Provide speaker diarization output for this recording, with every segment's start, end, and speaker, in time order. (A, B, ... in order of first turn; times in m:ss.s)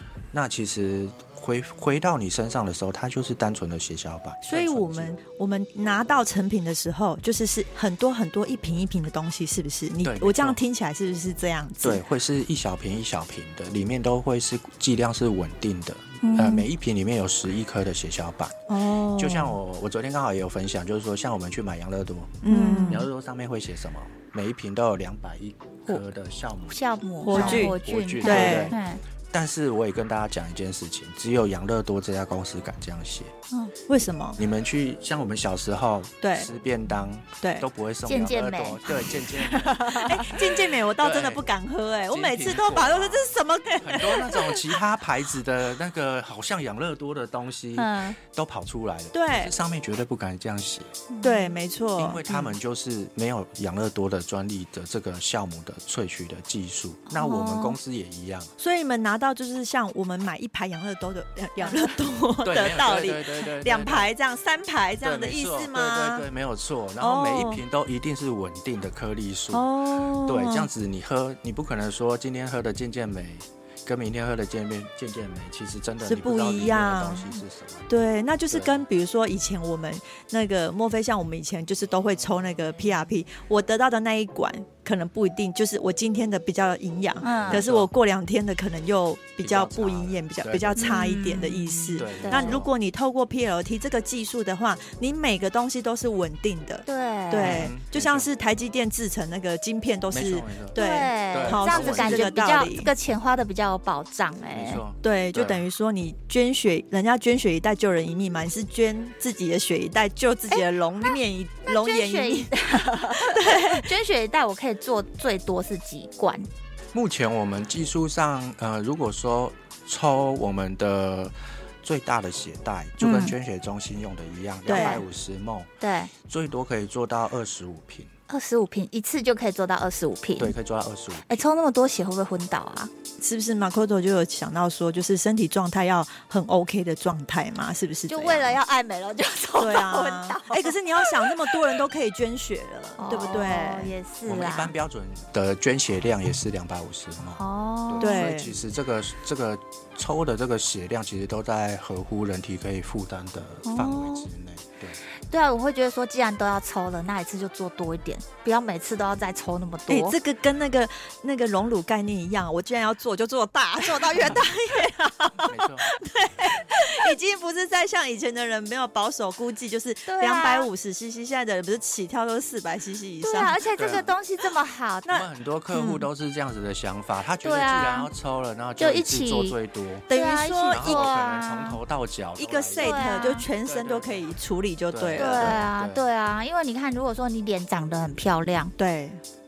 0:00.3-0:05.2 A
0:04.4-0:12.0 B
0:10.0-0:10.6 A
0:11.8-0:18.6 A
0:16.2-0:16.6 C
0:18.7-0:19.6 B
0:19.1-0:28.8 A
0:22.4-0:23.0 B
0:22.5-0:23.0 C
0:26.7-0:29.0 C
0:27.2-0:28.7 B
0:29.3-0:33.3 A
0:33.9-0:34.4 B
0:34.4-0:41.4 A
0:36.2-0:36.5 B
0:37.4-0:37.6 B
0:38.0-0:40.3 C
0:40.0-0:44.7 B
0:42.1-0:50.9 A
0:47.8-0:48.2 C
0:49.1-0:49.5 B
0:51.1-0:51.6 C
0:51.2-0:52.5 B
0:52.0-0:58.5 A
0:57.1-0:57.8 C
0:58.6-1:06.2 B
1:01.6-1:01.9 C
1:02.4-1:04.1 A
1:05.0-1:09.7 A
1:07.0-1:07.6 B
1:09.5-1:10.7 B
1:10.2-1:17.9 A
1:16.0-1:17.3 B
1:17.9-1:42.9 B
1:18.5-1:18.8 A
1:27.2-1:27.6 C
1:27.4-1:27.9 A
1:29.4-1:31.1 A
1:30.8-1:32.6 C
1:32.0-1:32.7 A
1:36.8-1:37.7 C
1:37.3-1:38.3 A
1:40.1-1:42.4 A
1:40.7-1:44.8 C
1:44.5-1:45.6 A
1:45.0-1:53.9 B
1:50.5-1:56.5 C
1:56.9-2:08.1 A
2:03.0-2:03.3 C
2:04.6-2:05.0 B
2:04.7-2:05.0 C
2:05.8-2:06.1 C
2:08.3-2:10.5 C
2:10.4-2:11.4 A
2:11.3-2:12.9 C
2:13.2-2:18.6 B
2:18.1-2:21.6 C
2:19.6-2:23.9 B
2:23.0-2:24.7 C
2:24.2-2:35.0 A
2:27.4-2:28.3 C
2:28.0-2:28.5 B
2:33.6-2:34.3 C
2:35.3-2:40.1 C
2:39.9-2:53.6 B
2:45.4-2:45.9 A
2:50.1-2:50.7 C
2:53.2-2:55.2 C
2:53.7-2:54.1 A
2:55.1-3:00.1 A
2:57.4-2:58.1 C
2:58.8-2:59.6 C
3:00.1-3:01.1 B
3:00.1-3:01.8 C
3:00.7-3:04.3 A
3:02.4-3:05.6 B
3:02.8-3:03.4 C
3:04.9-3:06.0 A
3:05.2-3:08.7 C
3:08.8-3:09.2 B